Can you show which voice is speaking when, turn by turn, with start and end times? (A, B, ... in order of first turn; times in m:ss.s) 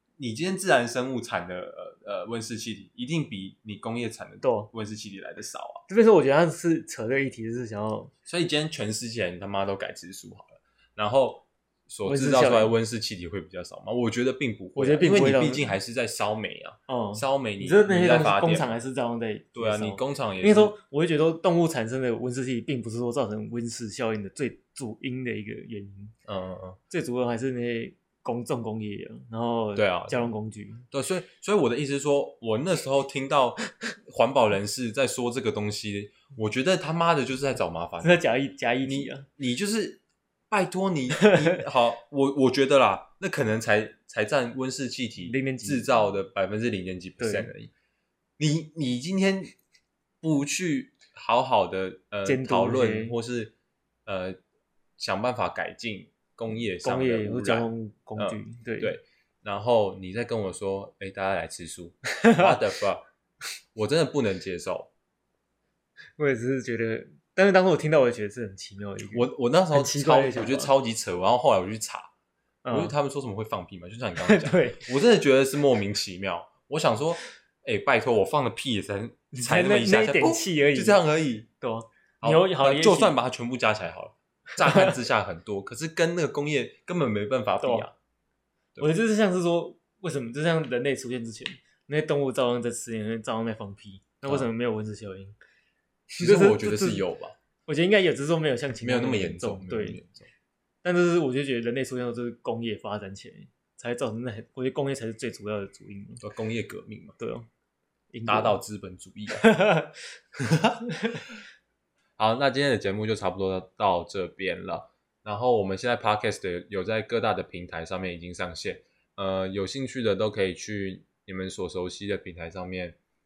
0:00.2-0:05.8 A
0:04.4-0:04.7 B
0:05.9-0:08.1 B
0:08.3-0:18.7 A
0:12.0-0:12.7 B
0:14.7-0:15.7 B
0:16.9-0:26.1 B
0:19.5-0:20.7 A
0:26.3-0:26.8 A
0:26.9-0:30.8 B
0:29.7-0:30.3 A
0:30.9-0:38.2 A
0:38.0-0:39.3 B
0:38.8-0:47.7 A
0:41.2-0:41.6 B
0:45.2-0:45.9 B
0:47.2-0:47.5 B
0:48.4-0:49.5 A
0:50.2-0:53.5 A
0:52.2-0:53.2 B
0:54.0-0:54.4 A
0:55.0-1:03.0 A
0:56.8-0:59.0 B
1:02.2-1:02.6 B
1:03.7-1:04.9 A
1:06.2-1:10.7 B
1:09.1-1:12.1 A
1:12.6-1:13.0 B
1:12.7-1:21.5 A
1:14.2-1:14.8 B
1:19.3-1:21.0 B
1:21.6-1:23.2 B
1:22.2-1:27.9 A
1:24.6-1:24.9 B
1:28.8-1:35.3 B
1:36.1-1:37.0 B
1:36.2-1:37.3 A
1:37.7-1:40.0 B
1:38.8-1:40.3 A
1:40.8-1:46.2 B
1:46.2-1:47.2 A
1:47.2-1:47.5 B
1:48.1-1:48.6 B
1:48.2-1:49.5 A
1:49.3-1:50.0 B
1:50.4-1:50.8 A
1:51.0-1:51.2 B
1:52.2-2:03.0 A